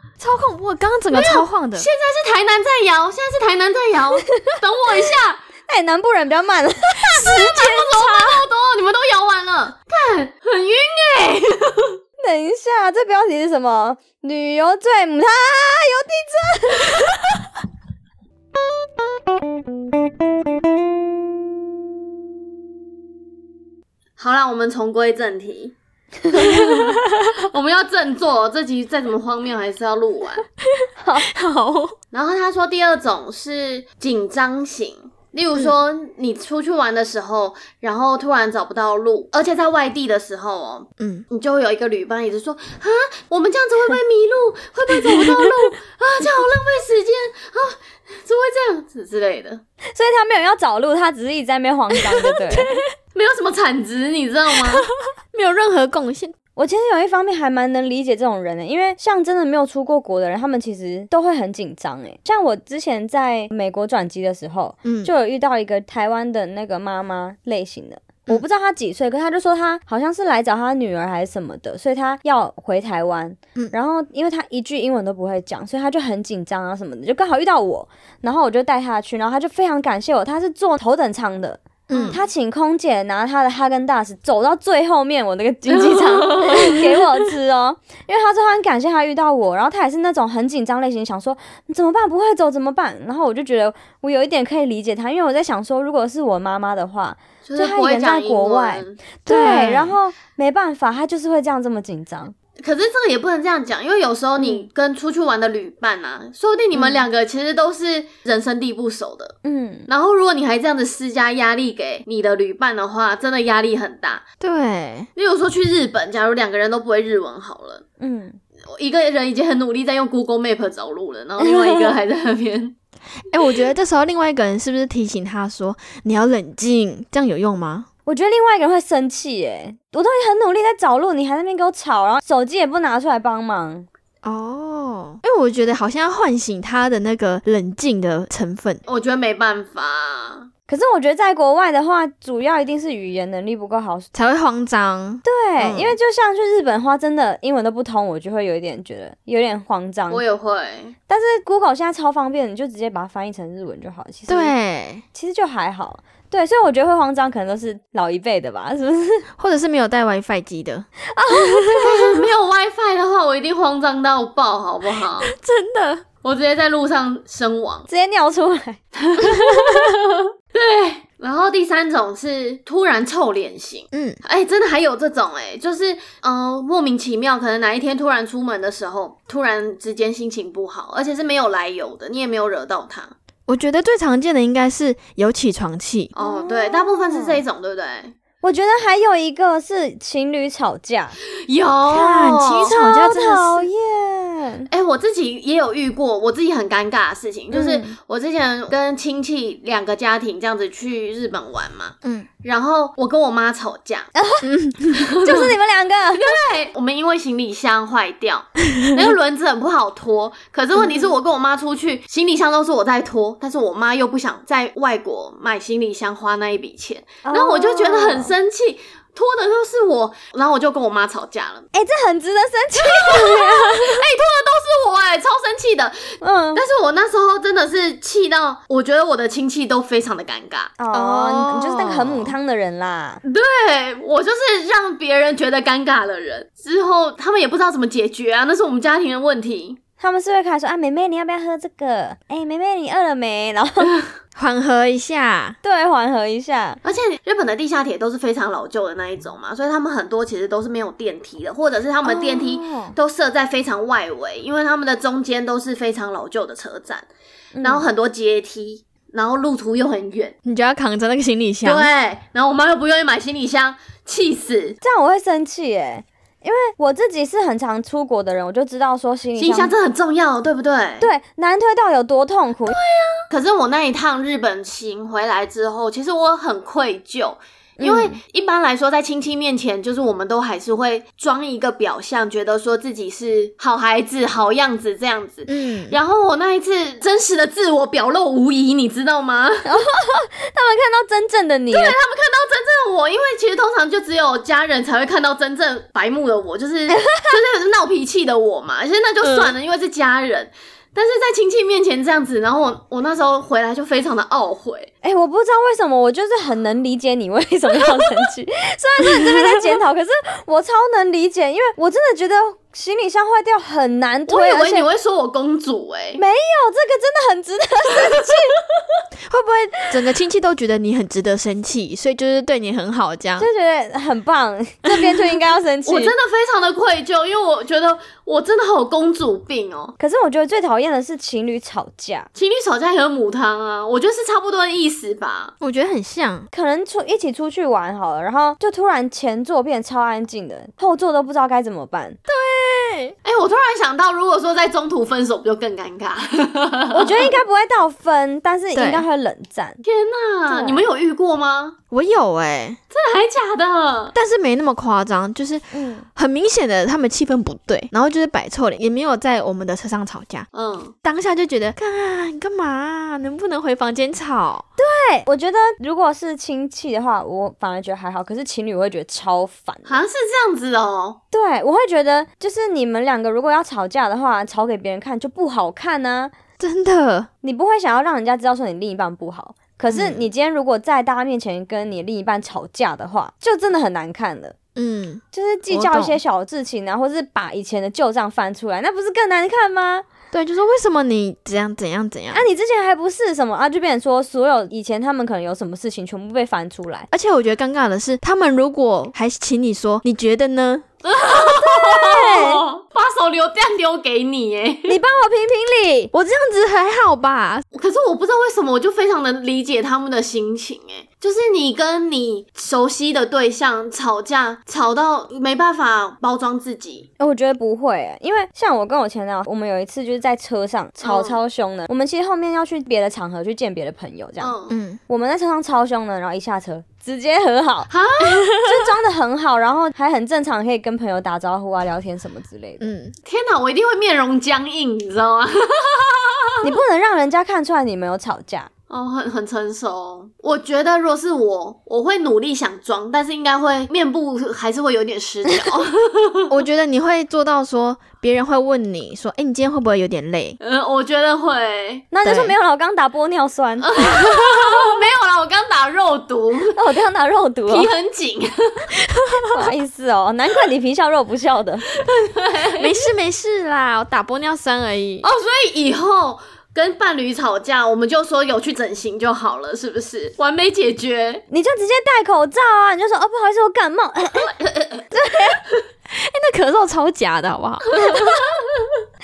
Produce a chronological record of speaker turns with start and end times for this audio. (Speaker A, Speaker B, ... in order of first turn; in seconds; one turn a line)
Speaker A: 0.2-1.9
Speaker B: 1.1-5.4
Speaker C: 5.7-7.2
Speaker B: 7.1-12.0
Speaker A: 7.2-8.4
Speaker C: 12.2-17.0
Speaker B: 24.2-25.8
Speaker B: 26.3-26.8
Speaker C: 26.4-26.8
Speaker B: 27.5-30.4
Speaker A: 30.8-31.9
Speaker C: 31.0-31.3
Speaker B: 32.1-49.6
Speaker A: 41.0-41.2
Speaker C: 49.9-52.7
Speaker A: 52.0-52.8
Speaker B: 53.1-54.9
Speaker A: 55.3-56.4
Speaker C: 56.6-102.3
Speaker A: 64.8-65.1
Speaker A: 81.9-82.2
Speaker B: 85.8-86.8
Speaker B: 97.5-99.0
Speaker A: 99.3-100.0
Speaker B: 102.6-109.3
Speaker C: 104.4-104.7
Speaker C: 109.4-109.9
Speaker B: 109.9-114.2
Speaker A: 114.4-115.1
Speaker B: 115.2-117.8
Speaker C: 118.0-118.4
Speaker B: 118.7-122.8
Speaker C: 121.4-122.0
Speaker A: 123.3-127.9
Speaker C: 128.1-133.9
Speaker A: 134.2-138.8
Speaker B: 138.9-140.5
Speaker C: 140.7-144.1
Speaker A: 144.1-145.9
Speaker C: 145.2-150.2
Speaker B: 150.1-150.9
Speaker C: 151.1-154.6
Speaker A: 154.3-155.0
Speaker C: 155.1-159.3
Speaker A: 159.4-161.8
Speaker C: 161.1-162.0
Speaker B: 161.8-165.3
Speaker A: 165.2-166.0
Speaker B: 166.2-167.9
Speaker C: 167.9-168.8
Speaker B: 168.9-169.9
Speaker B: 170.5-183.1
Speaker A: 173.9-174.2
Speaker A: 183.5-186.1
Speaker B: 186.2-188.1
Speaker C: 186.2-187.4
Speaker C: 188.4-191.2
Speaker B: 191.5-192.8
Speaker A: 191.9-193.7
Speaker C: 192.7-194.7
Speaker B: 194.7-204.1
Speaker C: 197.5-197.9
Speaker C: 204.2-204.5
Speaker A: 204.4-205.0
Speaker B: 205.0-205.5
Speaker C: 205.2-206.4
Speaker B: 206.2-221.7
Speaker C: 217.2-218.3
Speaker C: 221.7-224.0
Speaker B: 222.8-230.7
Speaker C: 226.2-226.6
Speaker C: 230.8-233.2
Speaker A: 230.9-232.3
Speaker B: 233.2-239.8
Speaker C: 240.0-243.9
Speaker A: 244.4-245.6
Speaker C: 245.6-246.8
Speaker B: 246.8-257.1
Speaker C: 252.0-252.9
Speaker C: 257.6-257.9
Speaker B: 257.6-260.4
Speaker A: 260.4-261.9
Speaker B: 261.6-264.8
Speaker C: 264.8-269.7
Speaker B: 269.4-271.1
Speaker C: 271.0-272.8
Speaker B: 273.3-289.7
Speaker C: 277.8-278.2
Speaker A: 285.5-286.0
Speaker C: 289.6-292.0
Speaker B: 291.7-304.9
Speaker C: 296.9-297.4
Speaker A: 299.2-299.5
Speaker C: 305.0-314.9
Speaker B: 314.3-316.2
Speaker C: 316.2-318.6
Speaker A: 319.3-323.5
Speaker C: 323.4-326.1
Speaker B: 325.9-329.9
Speaker C: 330.0-332.3
Speaker B: 332.4-335.5
Speaker A: 335.6-336.5
Speaker C: 336.5-342.2
Speaker A: 342.3-343.1
Speaker B: 343.2-347.3
Speaker C: 346.9-349.8
Speaker A: 348.8-349.1
Speaker B: 349.8-351.8
Speaker C: 350.5-350.9
Speaker A: 351.9-352.8
Speaker B: 352.9-354.1
Speaker A: 354.1-360.5
Speaker C: 355.7-356.1
Speaker B: 360.5-360.9
Speaker A: 361.0-364.6
Speaker C: 364.8-370.0
Speaker B: 369.9-371.2
Speaker C: 371.3-376.4
Speaker A: 376.6-377.3
Speaker C: 377.4-384.6
Speaker A: 379.9-380.2
Speaker A: 384.8-386.2
Speaker C: 385.3-390.1
Speaker A: 390.3-392.4
Speaker C: 392.3-397.1
Speaker A: 397.1-400.9
Speaker B: 401.0-405.0
Speaker C: 401.6-402.6
Speaker C: 404.9-406.1
Speaker A: 406.1-407.6
Speaker B: 407.7-417.1
Speaker C: 417.2-424.5
Speaker B: 421.0-421.4
Speaker B: 424.4-424.8
Speaker A: 424.7-425.0
Speaker C: 425.1-427.9
Speaker B: 427.9-428.5
Speaker C: 428.6-432.8
Speaker A: 432.8-433.1
Speaker B: 433.2-436.6
Speaker C: 436.6-438.7
Speaker B: 438.9-446.5
Speaker A: 446.5-450.6
Speaker B: 450.6-452.0
Speaker C: 452.1-454.2
Speaker A: 452.2-452.5
Speaker B: 453.8-456.8
Speaker C: 456.8-457.9
Speaker B: 457.7-458.9
Speaker A: 459.2-459.5
Speaker C: 459.5-461.8
Speaker B: 462.0-462.9
Speaker A: 462.8-465.3
Speaker B: 465.2-471.4
Speaker C: 471.5-474.5
Speaker B: 474.3-475.1
Speaker C: 475.1-475.6
Speaker A: 476.1-478.2
Speaker B: 477.9-478.9